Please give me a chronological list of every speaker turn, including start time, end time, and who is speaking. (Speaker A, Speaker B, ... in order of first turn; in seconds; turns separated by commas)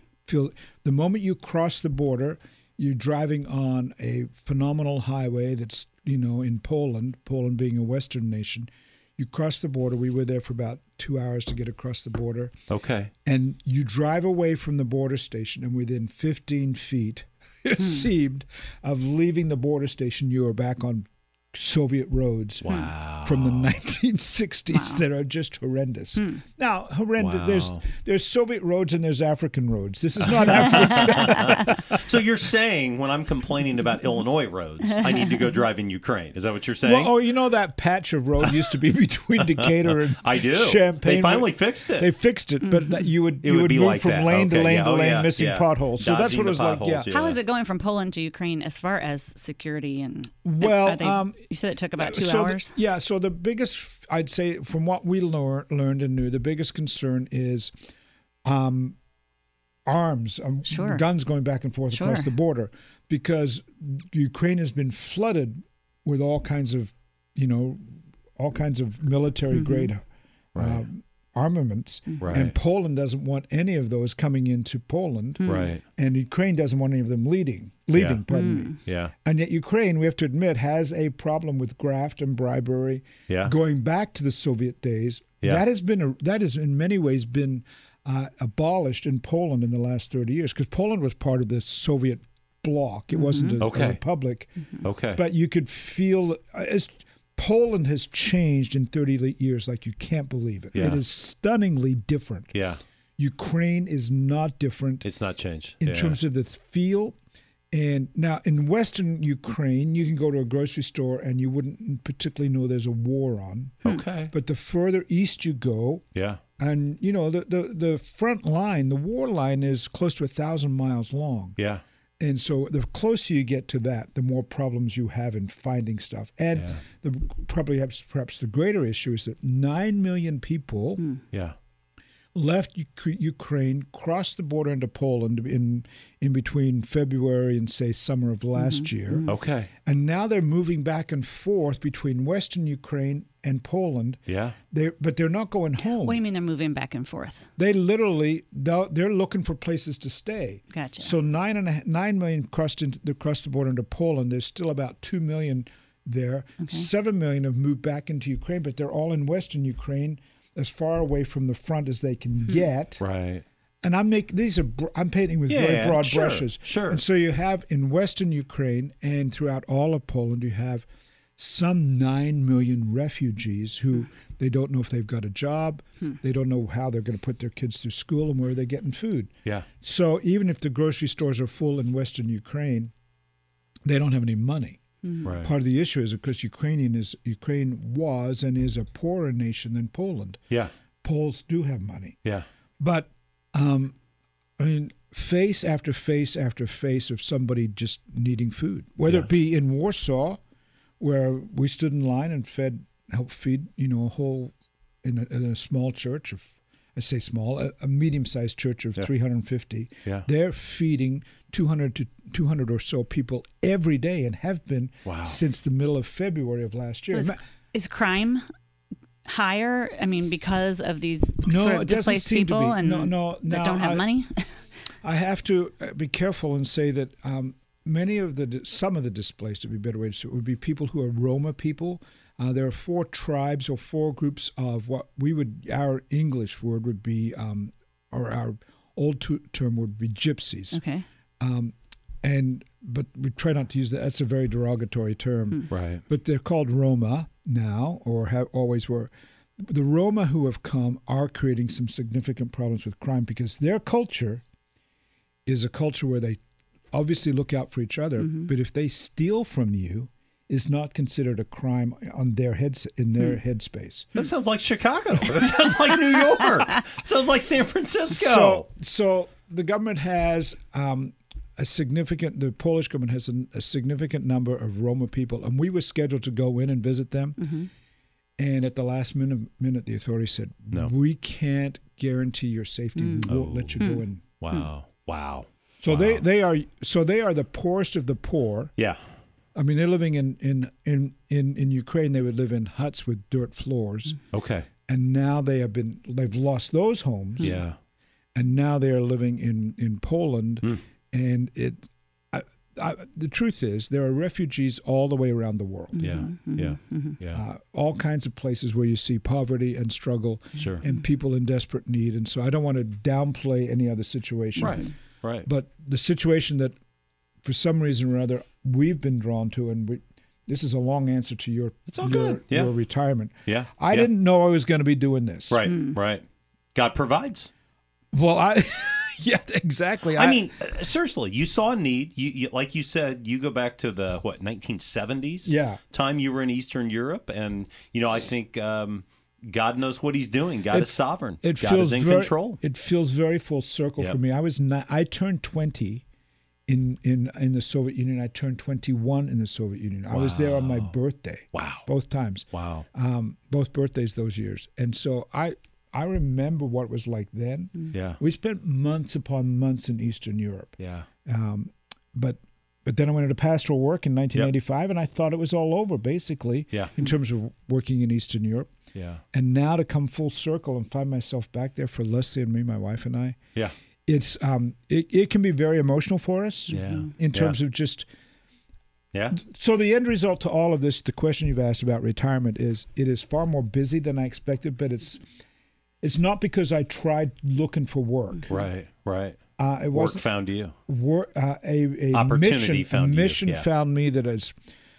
Speaker A: 0.2-12.5, Speaker B: 12.7-13.1, Speaker A: 13.2-22.7, Speaker C: 17.8-18.1, Speaker B: 22.6-23.7, Speaker A: 23.2-32.2, Speaker C: 24.7-25.0, Speaker B: 27.2-27.8, Speaker B: 30.2-37.1, Speaker A: 36.8-47.1, Speaker B: 39.4-42.1, Speaker C: 42.6-43.1, Speaker B: 43.4-47.4, Speaker C: 47.1-52.7, Speaker A: 50.4-51.4, Speaker A: 52.0-57.7, Speaker A: 58.4-59.0, Speaker A: 59.8-70.0, Speaker C: 60.7-61.0, Speaker C: 61.9-62.3, Speaker C: 69.5-69.9, Speaker B: 70.5-70.8, Speaker A: 70.5-94.5, Speaker B: 72.2-72.5, Speaker C: 75.4-75.7, Speaker B: 75.4-75.8, Speaker B: 77.9-78.2, Speaker C: 78.3-78.7, Speaker B: 78.8-79.1, Speaker B: 83.3-83.5, Speaker C: 93.1-93.6, Speaker B: 93.6-94.0, Speaker B: 94.8-95.2, Speaker A: 95.2-102.5, Speaker B: 100.7-101.0, Speaker B: 102.5-102.8, Speaker A: 103.2-105.1, Speaker B: 105.0-106.2, Speaker A: 105.8-107.2, Speaker A: 107.7-116.0, Speaker B: 113.8-114.3, Speaker B: 116.1-116.4, Speaker A: 116.6-121.6, Speaker B: 121.6-121.8, Speaker A: 122.2-131.0, Speaker B: 126.5-126.8, Speaker A: 132.3-139.3, Speaker C: 138.6-139.3, Speaker B: 139.2-139.7, Speaker A: 139.8-146.2, Speaker B: 144.3-144.6, Speaker C: 145.9-147.5, Speaker A: 147.6-163.0, Speaker C: 150.7-151.1, Speaker C: 156.6-156.9, Speaker B: 163.0-163.4, Speaker A: 163.8-170.8, Speaker B: 165.5-167.0, Speaker A: 171.4-182.9, Speaker A: 183.8-184.8, Speaker B: 185.2-185.5, Speaker A: 185.4-190.4, Speaker A: 191.0-192.2, Speaker A: 192.8-193.9, Speaker A: 194.6-200.4, Speaker A: 201.0-217.4, Speaker B: 215.0-215.4, Speaker C: 217.1-218.4, Speaker C: 219.2-224.4, Speaker A: 221.4-224.1, Speaker A: 225.0-240.8, Speaker C: 240.7-241.0, Speaker A: 241.4-254.4, Speaker B: 245.7-246.0, Speaker A: 255.4-256.4, Speaker A: 256.9-264.1, Speaker B: 264.1-268.6, Speaker A: 268.1-277.5, Speaker C: 277.4-277.7, Speaker A: 278.4-284.2, Speaker C: 283.0-283.2, Speaker B: 283.2-283.8, Speaker C: 283.8-284.7, Speaker B: 284.4-286.2, Speaker A: 285.8-288.7, Speaker A: 289.5-294.2, Speaker B: 294.3-294.7, Speaker A: 294.9-297.6, Speaker B: 297.4-297.8, Speaker A: 298.3-306.2, Speaker C: 305.9-307.2, Speaker B: 306.0-307.4, Speaker A: 307.3-314.8, Speaker B: 314.6-315.5, Speaker A: 315.4-316.8, Speaker A: 317.4-325.6, Speaker B: 321.9-322.7, Speaker B: 323.4-324.1, Speaker B: 325.5-326.2, Speaker C: 325.7-326.0, Speaker B: 326.7-327.5, Speaker A: 328.1-330.5, Speaker B: 330.1-342.6, Speaker A: 335.4-335.8, Speaker A: 340.7-346.0, Speaker A: 346.7-368.7, Speaker B: 350.1-350.9, Speaker B: 351.5-351.8, Speaker B: 352.5-352.9, Speaker B: 357.9-358.2, Speaker B: 360.8-361.1, Speaker B: 368.9-369.2, Speaker A: 369.3-373.4, Speaker A: 374.1-378.1, Speaker B: 376.7-377.6, Speaker C: 376.8-377.1, Speaker B: 379.1-379.4, Speaker A: 379.3-385.2, Speaker A: 386.0-388.5, Speaker B: 388.5-389.4, Speaker A: 389.6-390.2, Speaker B: 389.9-390.7, Speaker A: 390.9-394.5, Speaker B: 392.1-393.6